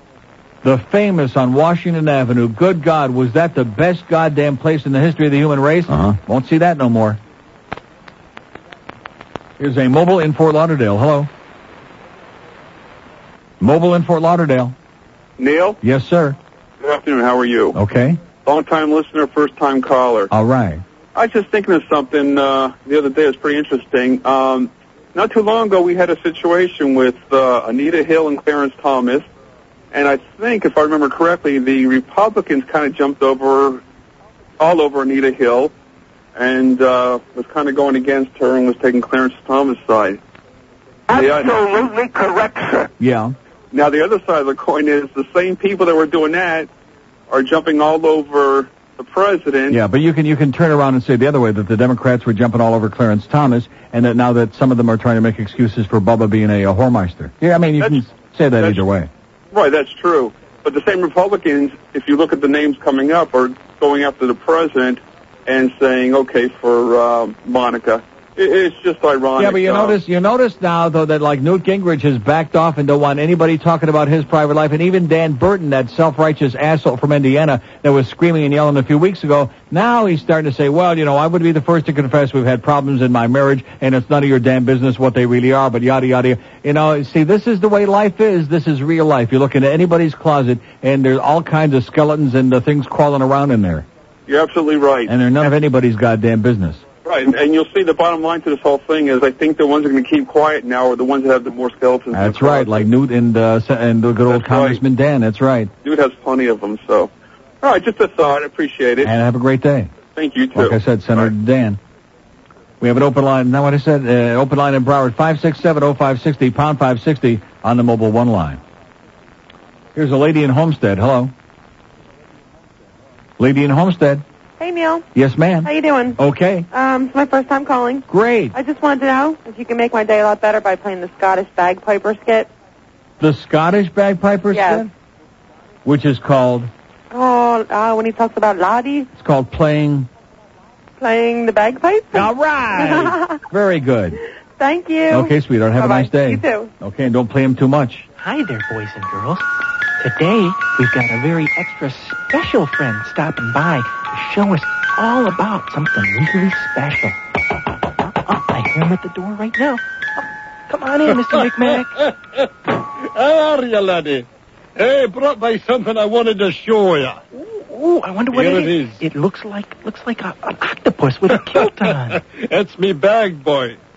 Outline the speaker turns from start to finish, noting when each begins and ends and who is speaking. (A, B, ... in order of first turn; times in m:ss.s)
0:00.6-0:07.2 A
0:09.6-0:11.3 A
0:13.6-0:14.7 A
0:15.4-0:15.8 B
0:15.8-0:16.4 A
0:16.8-0:17.8 B
0:17.7-0:18.2 A
0:18.4-0:20.3 B
0:20.3-0:20.8 A
0:21.1-0:29.3 B
0:29.9-0:33.8 B
0:34.6-0:35.7 B
0:36.4-0:40.2 B
0:41.1-0:41.6 B
0:43.0-0:43.3 A
0:43.7-0:46.7 B
0:47.3-0:49.8 B
0:49.7-0:59.1 A
0:58.6-0:58.8 B
0:59.5-1:10.0 B
1:09.4-1:33.8 A
1:34.3-1:35.5 B
1:35.1-1:36.8 A
1:37.0-1:42.9 B
1:42.1-1:45.7 A
1:44.3-1:44.8 B
1:45.8-1:47.1 B
1:47.6-1:49.1 B
1:49.0-1:49.9 A
1:50.1-1:51.3 B
1:50.5-1:51.8 A
1:52.8-1:58.6 A
1:59.9-2:01.3 A
2:03.4-2:04.2 A
2:04.6-2:05.0 C
2:05.1-2:06.7 A
2:05.7-2:06.1 C
2:06.8-2:08.0 C
2:08.1-2:08.6 A
2:08.6-2:12.4 C
2:13.2-2:14.9 A
2:14.5-2:14.8 C
2:15.8-2:16.7 A
2:17.1-2:19.0 C
2:19.1-2:20.1 A
2:21.0-2:22.2 C
2:22.1-2:24.2 A
2:24.6-2:26.7 C
2:25.1-2:28.1 A
2:28.2-2:29.4 D
2:30.0-2:37.2 D
2:38.0-2:42.0 D
2:41.1-2:42.5 E
2:43.0-2:44.2 E
2:44.8-2:47.2 E
2:47.3-2:52.2 D
2:48.3-2:49.0 E
2:51.3-2:53.8 E